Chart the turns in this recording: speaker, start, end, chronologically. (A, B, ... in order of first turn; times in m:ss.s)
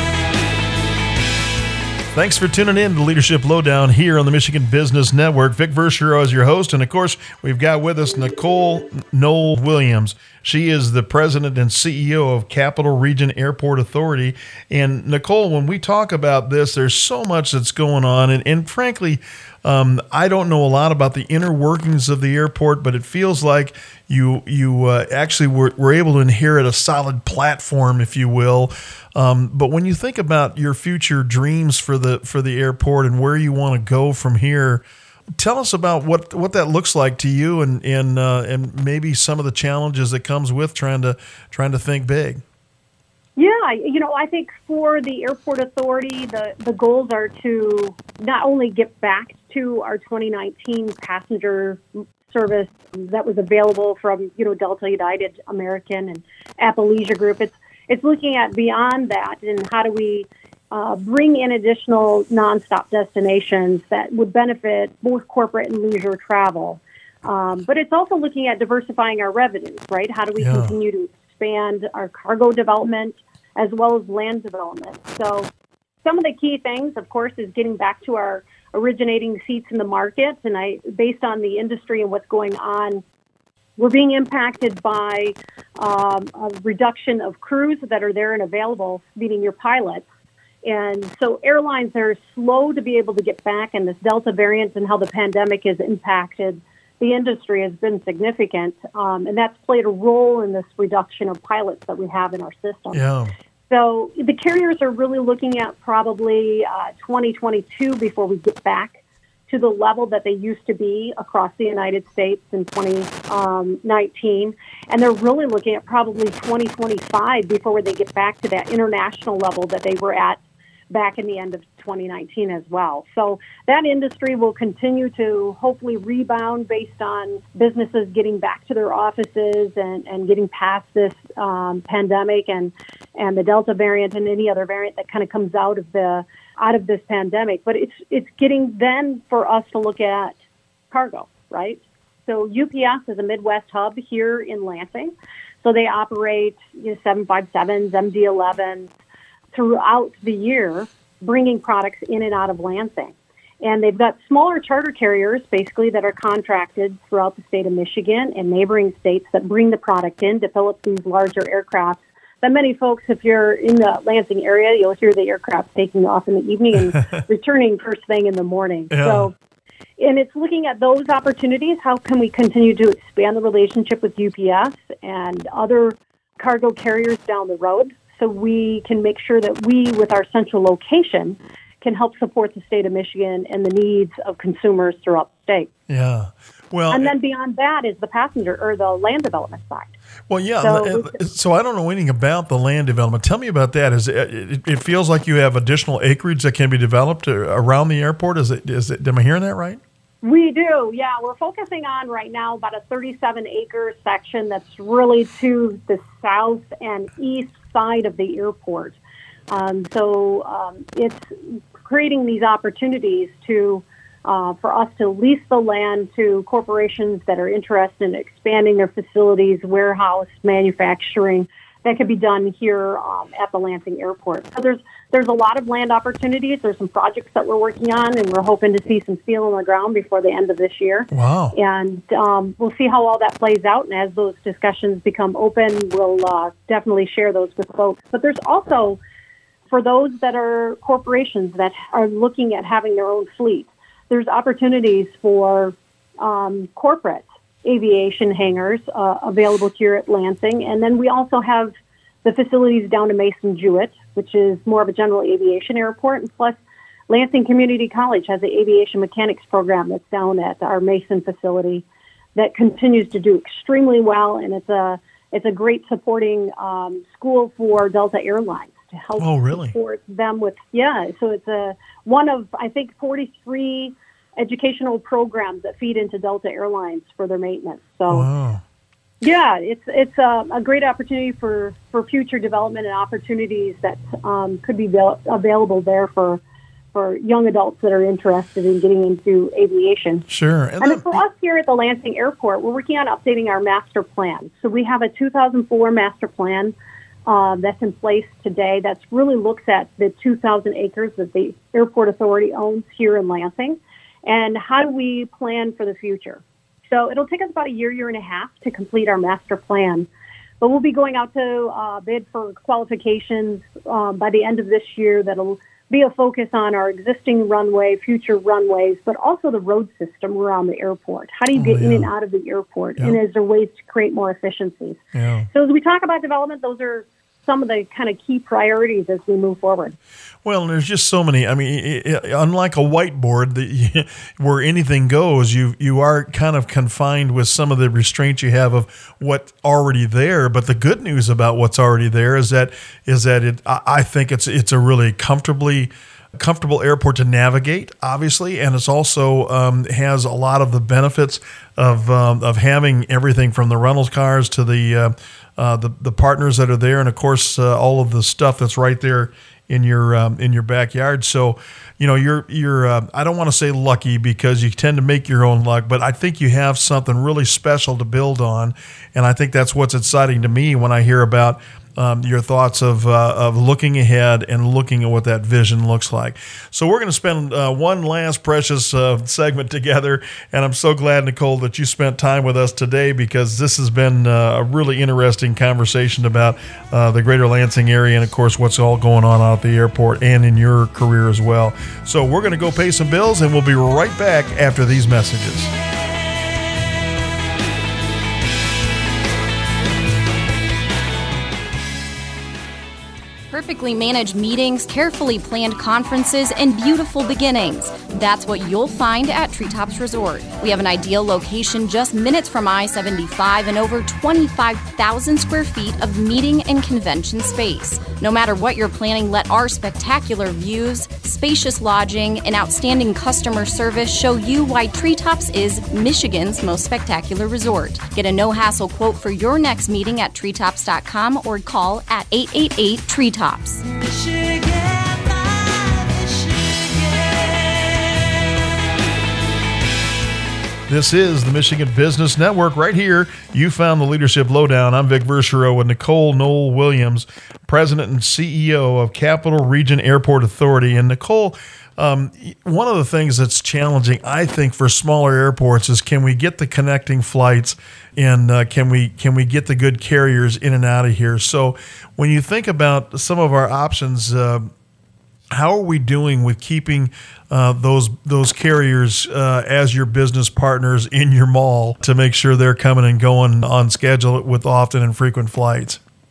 0:02.1-0:34.8 A
0:35.4-0:42.4 A
0:43.4-1:15.5 B
1:10.4-1:10.8 A
1:16.0-1:23.0 B
1:23.8-1:30.1 B
1:30.6-1:43.0 B
1:42.9-1:43.3 A
1:43.7-2:20.4 B
2:20.9-2:28.9 B
2:29.5-2:49.3 B
2:48.9-2:49.3 A
2:50.0-3:05.7 B
3:05.9-3:07.1 A
3:06.9-3:09.9 B
3:10.3-3:19.8 A
3:10.6-3:11.1 B
3:20.2-3:29.0 B
3:29.5-3:59.0 B
3:51.1-3:51.6 A
3:59.7-4:11.7 B
4:12.2-4:21.8 B
4:22.4-4:38.3 B
4:29.2-4:29.8 A
4:38.1-4:38.6 A
4:39.2-4:46.4 B
4:46.9-4:50.2 B
4:50.3-4:51.2 A
4:50.8-4:56.7 B
4:57.3-5:10.1 B
5:10.6-5:25.0 B
5:21.5-5:22.1 A
5:25.1-5:25.5 A
5:25.5-5:30.0 B
5:30.4-6:35.7 A
6:43.5-7:13.8 C
7:20.9-7:44.7 A
7:45.5-7:56.0 A